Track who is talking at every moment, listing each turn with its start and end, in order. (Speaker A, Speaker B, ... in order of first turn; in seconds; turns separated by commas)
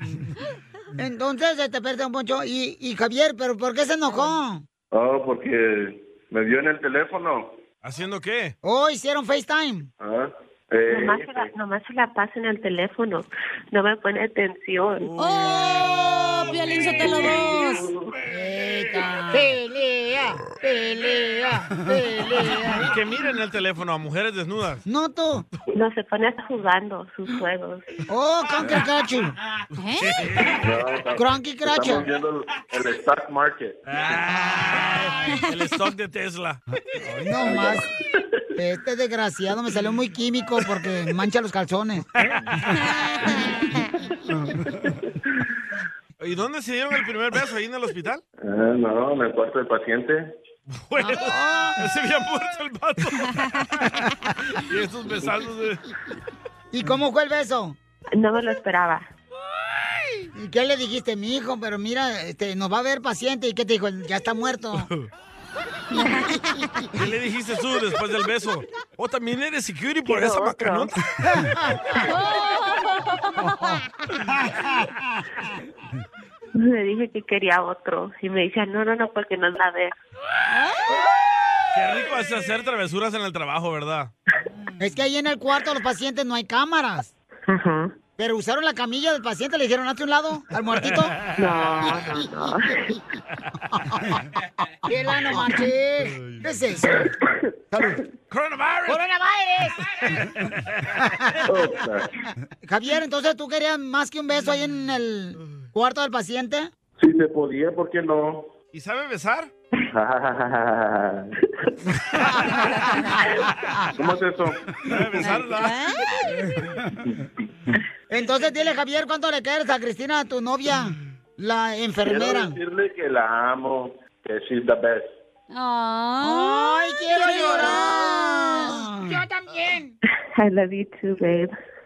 Speaker A: 0.9-4.6, Speaker B: 4.1-4.4, Speaker C: 4.9-7.5, Speaker D: 7.8-8.5, Speaker A: 8.6-9.9, Speaker C: 10.0-11.5, Speaker E: 10.9-15.1, Speaker D: 15.0-15.9, Speaker B: 15.2-17.9, Speaker E: 16.8-17.8, Speaker A: 18.3-22.9, Speaker D: 18.5-19.1, Speaker D: 22.5-24.8, Speaker A: 24.9-25.5, Speaker E: 25.7-27.9, Speaker A: 28.1-29.4, Speaker B: 29.8-30.2, Speaker D: 30.0-30.6, Speaker C: 30.6-33.8, Speaker A: 31.1-32.1, Speaker D: 33.9-36.6, Speaker A: 37.0-37.9, Speaker C: 37.4-37.8, Speaker A: 38.5-42.0, Speaker D: 42.2-42.6, Speaker D: 46.2-48.2, Speaker C: 48.4-50.3, Speaker D: 50.7-53.9, Speaker A: 51.0-51.8, Speaker D: 54.5-55.8, Speaker A: 56.7-57.8, Speaker E: 58.1-59.1, Speaker A: 60.3-64.9, Speaker D: 64.8-65.1, Speaker B: 65.9-66.4, Speaker D: 66.9-71.0, Speaker E: 70.0-70.9, Speaker B: 72.0-73.8, Speaker E: 76.5-79.9, Speaker B: 80.5-81.0, Speaker D: 81.7-84.1, Speaker A: 84.8-87.1, Speaker E: 87.5-87.9, Speaker A: 88.2-91.1, Speaker D: 90.8-91.1, Speaker E: 91.4-93.0, Speaker A: 94.8-97.1, Speaker D: 96.0-96.5, Speaker A: 97.7-98.0, Speaker D: 98.3-99.0, Speaker A: 98.9-99.7, Speaker D: 100.0-100.9, Speaker A: 101.0-101.5, Speaker C: 101.5-102.1, Speaker A: 102.6-106.7, Speaker C: 107.0-108.5, Speaker D: 108.7-109.5, Speaker C: 109.9-111.3, Speaker C: 113.9-114.6, Speaker D: 114.8-115.9, Speaker B: 115.2-116.5, Speaker A: 118.1-122.5, Speaker C: 122.0-125.1, Speaker B: 125.5-128.8, Speaker A: 126.2-129.7, Speaker D: 127.3-127.8, Speaker E: 130.3-131.5